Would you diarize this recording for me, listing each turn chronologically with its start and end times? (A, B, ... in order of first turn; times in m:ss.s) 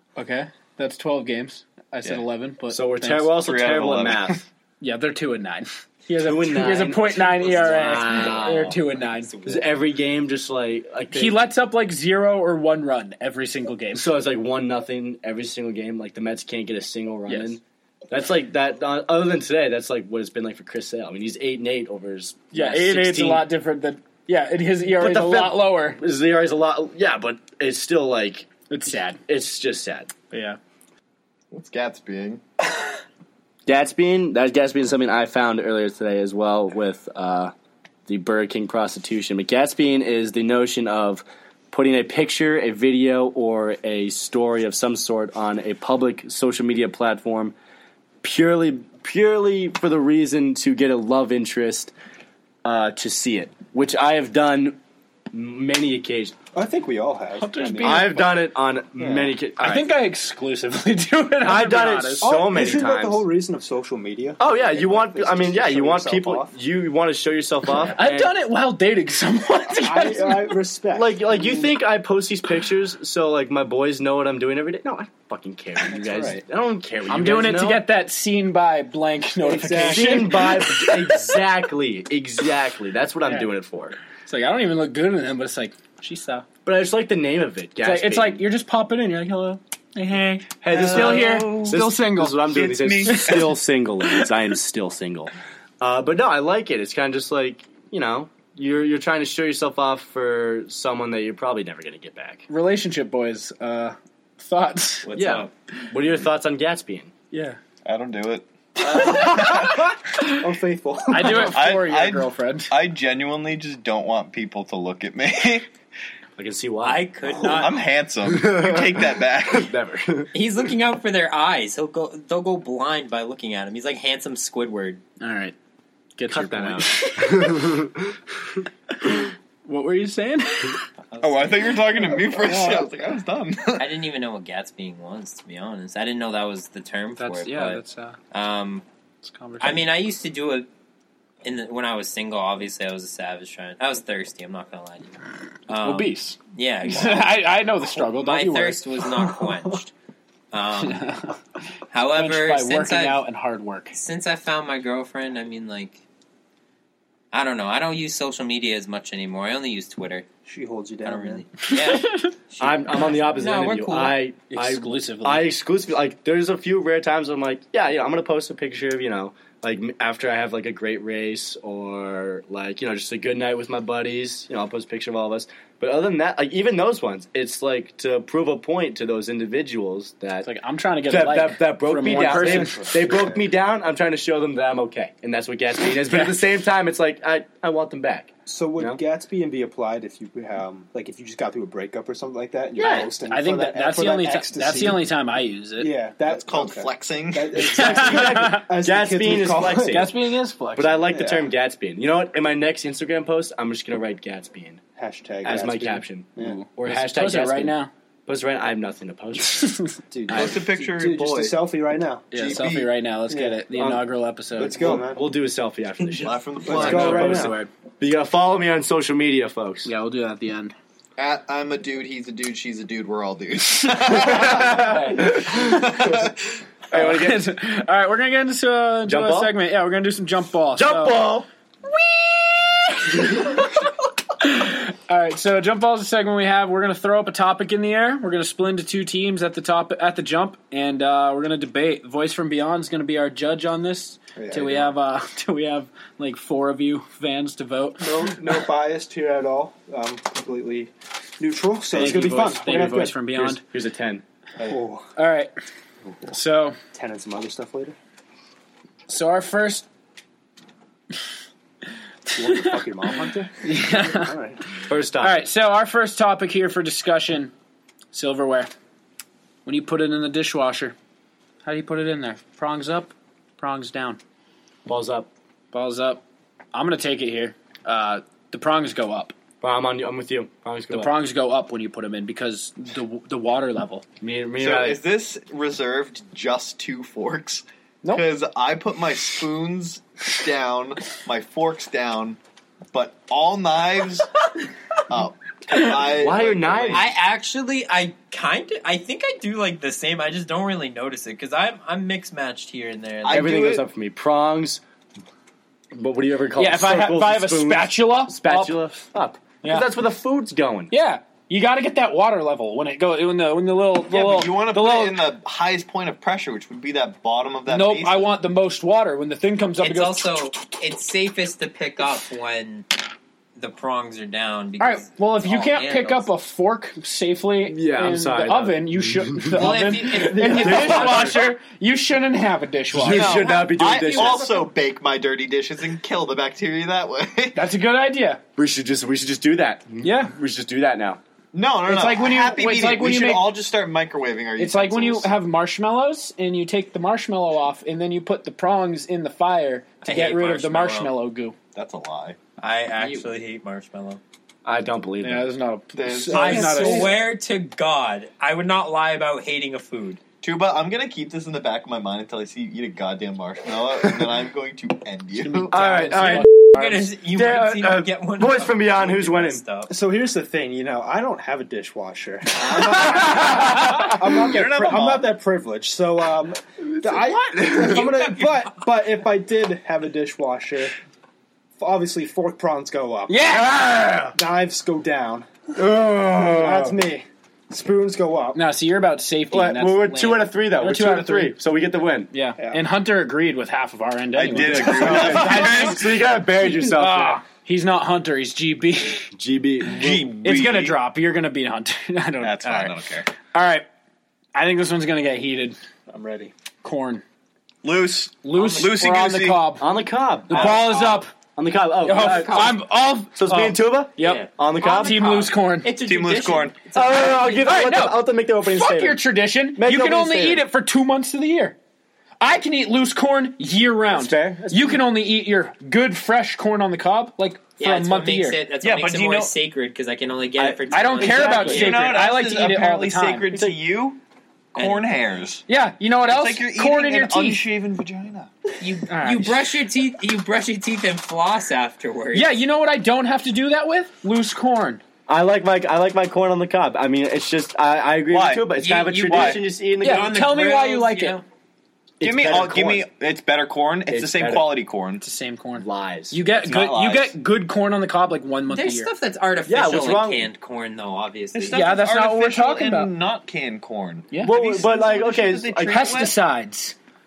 0:00.2-0:03.3 A
0:02.7-0:04.4 B
0:03.4-0:04.4 C
0:04.8-0:09.4 A
0:06.2-0:08.8 B
0:08.1-0:09.6 D
0:09.4-0:11.4 B
0:11.1-0:14.1 A
0:13.9-0:23.5 B
0:17.3-0:17.6 A
0:22.5-0:26.0 A
0:24.9-0:28.5 B
0:28.7-0:29.2 A
0:29.2-0:30.1 B
0:30.3-0:30.6 A
0:31.5-0:32.4 C
0:33.6-0:37.5 B
0:38.1-0:47.5 B
0:48.2-0:51.9 B
0:52.6-0:54.8 B
0:55.3-0:56.3 B
0:56.5-0:58.3 E
0:57.4-0:58.3 A
0:57.8-0:59.9 B
0:59.0-0:59.3 E
0:59.6-1:02.3 A
1:01.4-1:03.2 B
1:02.2-1:06.5 E
1:04.4-1:08.3 B
1:07.9-1:10.6 A
1:09.7-1:11.7 E
1:10.9-1:17.8 B
1:15.9-1:16.4 E
1:17.1-1:21.3 A
1:19.4-1:20.5 E
1:19.5-1:24.0 B
1:24.2-1:26.4 A
1:26.6-1:28.4 B
1:27.8-1:32.4 A
1:30.6-1:42.4 B
1:30.7-1:31.9 C
1:32.4-1:33.5 C
1:33.0-1:34.3 A
1:42.5-1:45.1 A
1:45.1-1:47.1 B
1:47.3-1:47.6 A
1:47.8-1:49.9 C
1:48.8-1:50.4 A
1:50.2-1:51.5 E
1:51.1-1:52.7 A
1:51.2-1:55.6 C
1:56.4-1:57.1 B
1:56.8-1:57.8 D
1:57.4-1:59.7 C
1:58.2-2:00.3 B
2:00.3-2:05.0 D
2:05.2-2:05.5 A
2:06.2-2:07.6 A
2:06.3-2:08.1 B
2:09.0-2:10.8 A
2:11.1-2:11.7 D
2:11.2-2:13.9 C
2:12.3-2:12.9 A
2:13.8-2:18.8 D
2:17.2-2:18.2 A
2:19.2-2:19.9 A
2:19.6-2:20.7 D
2:21.4-2:25.2 D
2:25.7-2:29.9 D
2:25.7-2:28.8 A
2:30.5-2:31.0 D
2:30.8-2:31.4 A
2:31.9-2:33.2 D
2:32.1-2:33.9 A
2:33.9-2:36.0 D
2:37.3-2:40.2 D
2:40.5-2:41.4 E
2:41.0-2:44.2 D
2:41.7-2:42.3 A
2:42.6-3:00.5 B
2:44.5-2:45.5 A
3:00.4-3:02.9 A
3:01.1-3:09.0 B
3:02.0-3:03.4 E
3:06.0-3:06.4 A
3:08.4-3:15.1 E
3:12.8-3:15.9 A
3:12.8-3:13.1 B
3:15.8-3:20.1 E
3:16.3-3:17.6 C
3:17.6-3:18.6 A
3:17.6-3:20.1 B
3:19.8-3:21.2 A
3:20.8-3:24.8 B
3:21.1-3:21.5 E
3:25.0-3:26.6 E
3:25.4-3:29.8 B
3:26.4-3:27.9 A
3:29.5-3:30.6 A
3:30.1-3:32.3 E
3:30.3-3:31.6 C
3:32.3-3:35.0 A
3:32.3-3:32.9 C
3:33.3-3:34.0 E
3:34.6-3:35.3 E
3:34.8-3:39.9 B
3:36.1-3:37.5 C
3:36.6-3:37.6 E
3:36.8-3:37.7 A
3:39.8-3:40.7 A
3:41.2-3:46.4 C
3:44.1-3:45.8 A
3:44.4-3:46.1 B
3:46.9-3:47.4 B
3:46.9-3:51.3 A
3:49.0-3:49.5 B
3:50.7-3:51.5 B
3:51.9-3:53.7 A
3:54.4-4:08.3 A
4:04.4-4:04.9 E
4:08.0-4:13.2 E
4:11.9-4:13.6 A
4:12.0-4:14.2 B
4:14.6-4:15.1 E
4:15.2-4:15.5 A
4:16.3-4:16.8 A
4:16.9-4:17.9 E
4:19.1-4:19.8 A
4:22.3-4:22.7 A
4:22.3-4:24.6 E
4:23.6-4:24.3 A
4:24.8-4:25.4 B
4:25.2-4:27.5 A
4:28.1-4:28.7 A
4:29.6-4:30.9 A
4:31.6-4:34.2 A
4:34.8-4:35.3 B
4:35.7-4:36.2 A
4:36.7-4:39.3 A
4:39.6-4:41.1 B
4:40.9-4:44.0 A
4:44.2-4:45.0 B
4:44.6-4:52.4 C
4:52.9-4:54.3 C
4:55.1-4:57.1 C
4:56.1-4:57.1 B
4:56.9-5:03.5 D
5:03.2-5:03.8 C
5:03.3-5:04.8 B
5:05.9-5:10.9 B
5:06.6-5:08.8 A
5:09.6-5:09.9 A
5:10.9-5:15.2 A
5:14.1-5:18.3 C
5:17.7-5:20.6 A
5:19.8-5:22.9 D
5:23.6-5:26.3 D
5:24.8-5:33.5 A
5:27.7-5:31.4 B
5:29.5-5:31.4 D
5:30.6-5:31.1 E
5:32.9-5:34.5 B
5:33.0-5:37.7 C
5:33.8-5:34.6 E
5:37.5-5:38.4 A
5:38.6-5:41.2 B
5:40.0-5:40.3 A
5:41.5-5:45.3 C
5:41.9-5:43.5 A
5:44.6-5:51.6 A
5:50.0-5:51.1 D
5:51.7-5:52.4 C
5:52.6-5:54.2 D
5:53.0-5:53.2 B
5:54.6-5:55.5 B
5:55.2-5:57.1 A
5:56.0-5:57.1 C
5:56.3-6:00.2 D
6:00.4-6:05.8 C
6:05.4-6:07.1 A
6:05.7-6:06.5 B
6:06.8-6:09.9 D
6:07.3-6:09.6 B
6:09.9-6:20.9 E
6:13.4-6:14.0 A
6:14.4-6:15.3 C
6:17.7-6:18.8 D
6:21.8-6:23.4 E
6:23.3-6:24.4 A
6:24.4-6:25.5 E
6:25.7-6:27.0 B
6:26.5-6:28.6 E
6:28.5-6:31.6 A
6:29.5-6:32.3 B
6:32.3-6:39.3 A
6:34.3-6:36.2 C
6:34.6-6:37.4 B
6:39.3-6:40.3 B
6:39.9-6:41.0 C
6:40.4-6:43.8 A
6:42.4-6:43.3 C
6:44.5-6:45.8 A
6:46.1-6:46.5 E
6:46.8-6:47.2 A
6:47.8-6:49.8 C
6:48.4-6:49.8 A
6:48.6-6:48.8 D
6:49.8-6:50.9 B
6:50.5-6:51.3 A
6:50.5-6:51.2 D
6:51.6-6:52.8 B
6:52.0-6:55.9 A
6:52.1-6:52.8 D
6:53.3-6:55.5 B
6:54.2-6:57.9 D
6:56.0-6:56.8 C
6:56.9-6:59.2 B
6:57.6-7:01.8 A
6:59.7-7:00.6 B
7:02.4-7:08.6 A
7:04.2-7:04.9 B
7:07.8-7:12.1 D
7:08.8-7:09.5 C
7:10.6-7:11.9 B
7:10.9-7:13.8 A
7:11.6-7:14.2 C
7:14.7-7:15.6 C
7:14.8-7:15.4 D
7:15.7-7:17.6 A
7:16.2-7:18.5 C
7:18.8-7:22.5 D
7:19.1-7:19.6 A
7:22.3-7:25.0 A
7:25.3-7:30.4 B
7:28.3-7:29.6 C
7:28.8-7:31.4 D
7:30.0-7:31.4 A
7:32.2-7:33.0 B
7:32.2-7:35.2 C
7:34.1-7:34.7 B
7:35.2-7:39.1 A
7:35.8-7:36.4 B
7:36.6-7:37.3 C
7:38.7-7:41.9 D
7:39.7-7:40.5 B
7:41.5-7:46.4 C
7:41.7-7:43.1 A
7:44.3-7:44.6 A
7:44.4-7:46.0 B
7:45.9-7:46.9 A